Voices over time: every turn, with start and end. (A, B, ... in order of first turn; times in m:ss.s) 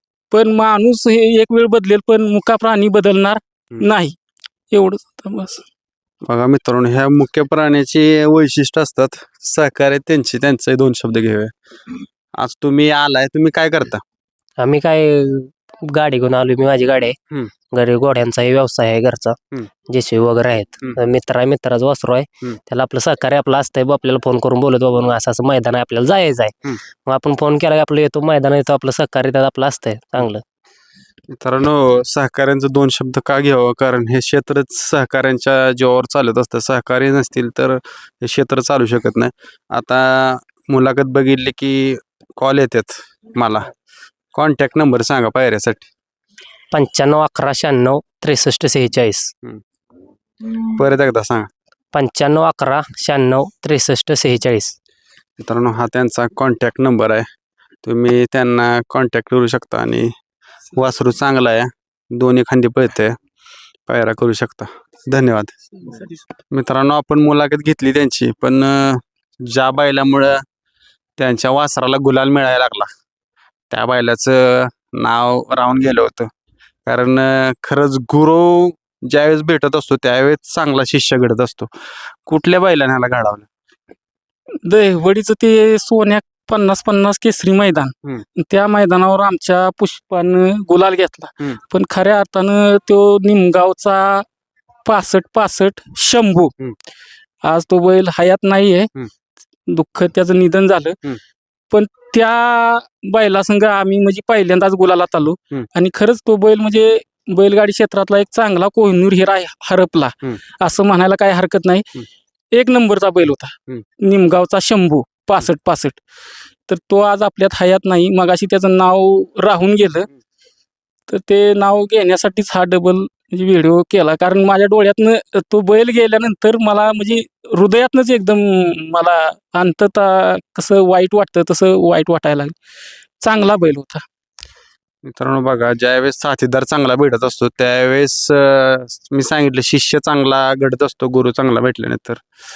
0:00.3-0:04.2 A
0:04.7-0:05.6 A
0:06.2-0:11.5 B
0:12.4-0:14.0 B
0:14.6-0:17.2 C
0:17.7-0:19.4 C
0:19.9-0:30.4 C
0:31.3-0:43.7 B
0:44.3-0:45.9 B
0:46.7-0:49.3 C
0:50.4-0:51.5 B
0:51.9-0:54.7 C
0:55.4-0:57.3 B
0:57.8-1:00.1 B
1:00.7-1:03.2 B
1:03.9-1:05.6 B
1:06.5-1:10.4 B
1:11.2-1:12.9 B
1:13.7-1:16.3 B
1:16.8-1:21.7 B
1:22.2-1:23.5 B
1:24.6-1:34.2 A
1:34.8-1:36.5 A
1:37.4-1:38.9 A
1:39.7-1:41.2 A
1:41.7-1:56.0 A
1:56.7-2:00.1 A
2:01.1-2:12.5 A
2:13.2-2:14.0 A
2:15.0-2:22.2 B